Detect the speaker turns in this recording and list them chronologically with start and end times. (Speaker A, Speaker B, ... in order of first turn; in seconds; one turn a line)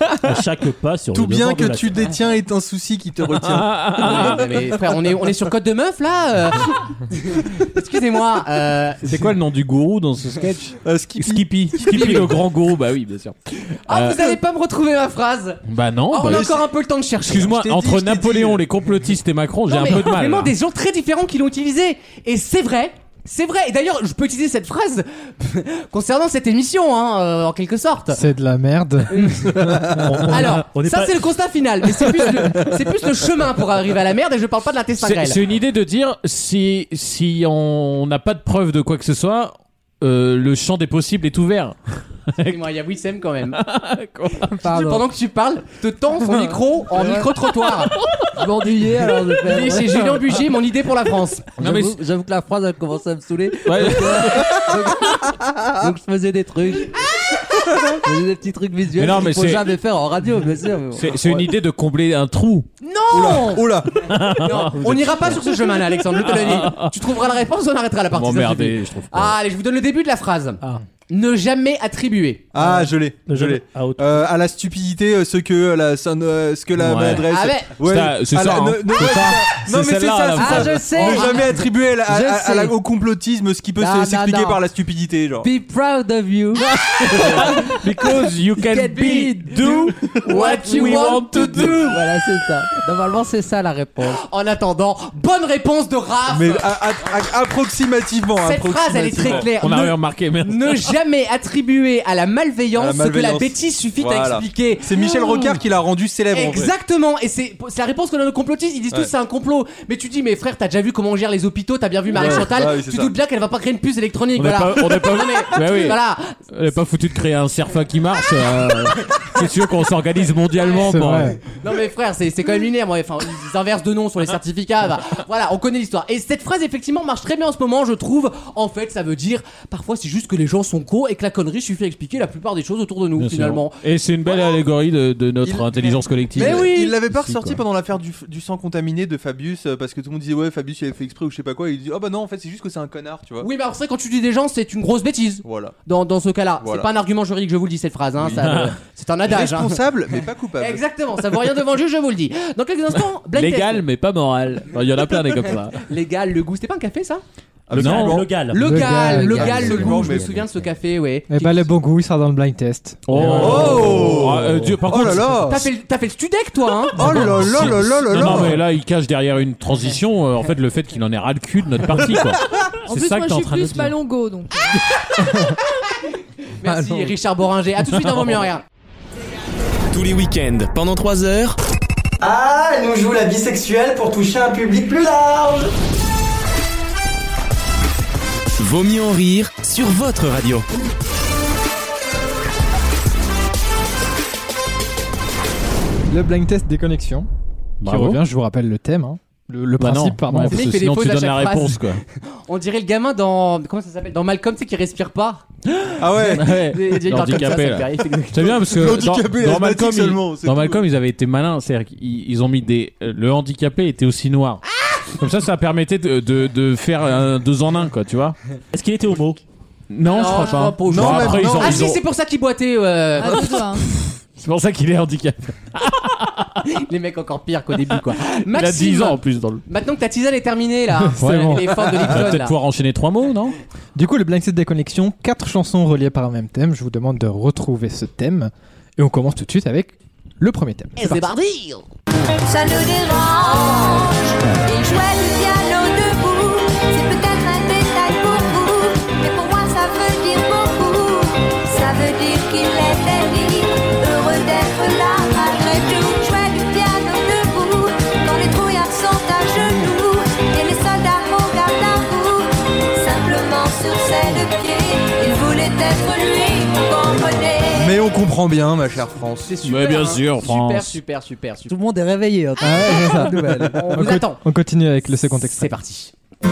Speaker A: 0.2-2.1
Speaker B: 1.1-5.2
Speaker C: 3.3-4.4
Speaker D: 4.0-9.1
Speaker C: 9.0-14.4
Speaker B: 10.8-12.4
Speaker D: 11.8-12.3
Speaker D: 13.9-15.6
Speaker C: 15.7-16.5
Speaker D: 16.1-17.5
Speaker B: 16.2-16.7
Speaker C: 17.2-20.5
Speaker B: 17.3-18.6
Speaker D: 19.7-28.2
Speaker E: 28.1-29.1
Speaker D: 29.1-35.4
Speaker A: 29.9-31.2
Speaker C: 35.0-42.6
Speaker D: 42.4-43.6
Speaker C: 43.5-44.6
Speaker F: 44.6-45.0
Speaker D: 44.6-47.9
Speaker F: 46.9-47.3
Speaker C: 47.9-49.2
Speaker F: 48.3-50.1
Speaker D: 49.4-51.5
Speaker F: 51.6-57.1
Speaker C: 51.6-52.0
Speaker C: 53.6-55.1
Speaker F: 58.0-61.2
Speaker C: 59.0-59.7
Speaker C: 60.9-62.7
Speaker D: 62.8-72.5
Speaker B: 63.1-64.2
Speaker C: 64.1-64.7
Speaker A: 64.8-65.2
Speaker C: 66.1-66.9
Speaker C: 68.1-69.4
Speaker B: 72.5-85.5
Speaker A: 72.7-74.3
Speaker C: 76.8-80.8
Speaker D: 77.3-77.7
Speaker F: 80.3-82.8
Speaker D: 80.4-81.7
Speaker F: 83.8-84.6
Speaker F: 85.4-87.5
Speaker C: 86.6-92.1
Speaker D: 87.2-87.7
Speaker D: 88.7-92.0
Speaker F: 88.7-94.2
Speaker D: 94.0-96.8
Speaker B: 96.3-99.5
Speaker D: 98.4-105.6
Speaker C: 99.2-100.9
Speaker B: 102.7-106.7
Speaker D: 106.3-116.3
Speaker B: 112.1-113.1
Speaker C: 114.3-121.4
Speaker D: 120.6-120.9
Speaker E: 120.8-121.4
Speaker D: 121.5-133.8
Speaker C: 133.2-137.6
Speaker B: 135.4-143.5
Speaker D: 136.3-136.9
Speaker D: 143.4-149.8
Speaker B: 145.4-145.7
Speaker B: 146.6-146.9
Speaker C: 148.3-148.7
Speaker B: 149.2-150.8
Speaker D: 150.6-153.8
Speaker C: 153.3-155.8
Speaker D: 155.8-157.2
Speaker B: 157.7-158.3
Speaker C: 157.7-158.2
Speaker A: 157.7-159.2
Speaker D: 158.5-161.7
Speaker E: 158.6-159.8
Speaker F: 158.6-160.7
Speaker B: 159.3-160.4
Speaker E: 161.3-163.7
Speaker C: 163.1-165.6
Speaker A: 163.1-164.7
Speaker B: 163.2-165.7
Speaker D: 165.4-167.3
Speaker B: 166.9-168.6
Speaker C: 167.0-173.9
Speaker G: 172.9-174.8
Speaker D: 176.6-178.6
Speaker F: 176.7-177.1
Speaker H: 179.9-181.6
Speaker I: 182.2-185.7
Speaker H: 188.6-190.6
Speaker E: 196.1-197.3
Speaker C: 197.8-198.2
Speaker E: 197.8-200.6
Speaker C: 199.8-202.0
Speaker D: 200.5-205.4
Speaker C: 205.7-214.6
Speaker B: 206.0-206.8
Speaker D: 206.4-208.6
Speaker B: 208.5-210.9
Speaker D: 214.7-215.1
Speaker C: 215.2-218.4
Speaker A: 218.7-219.4
Speaker C: 219.9-222.0
Speaker D: 220.0-223.6
Speaker B: 220.8-222.0
Speaker G: 223.2-223.8
Speaker C: 223.2-226.6
Speaker D: 226.7-232.5
Speaker C: 228.5-229.6
Speaker E: 231.0-231.7
Speaker C: 231.2-233.6
Speaker E: 233.9-241.2
Speaker D: 241.0-241.8
Speaker J: 242.4-268.0
Speaker B: 267.7-269.5
Speaker D: 269.4-271.7
Speaker C: 269.6-270.9
Speaker F: 271.7-273.9
Speaker E: 272.6-275.7
Speaker D: 273.7-274.4
Speaker D: 275.5-276.1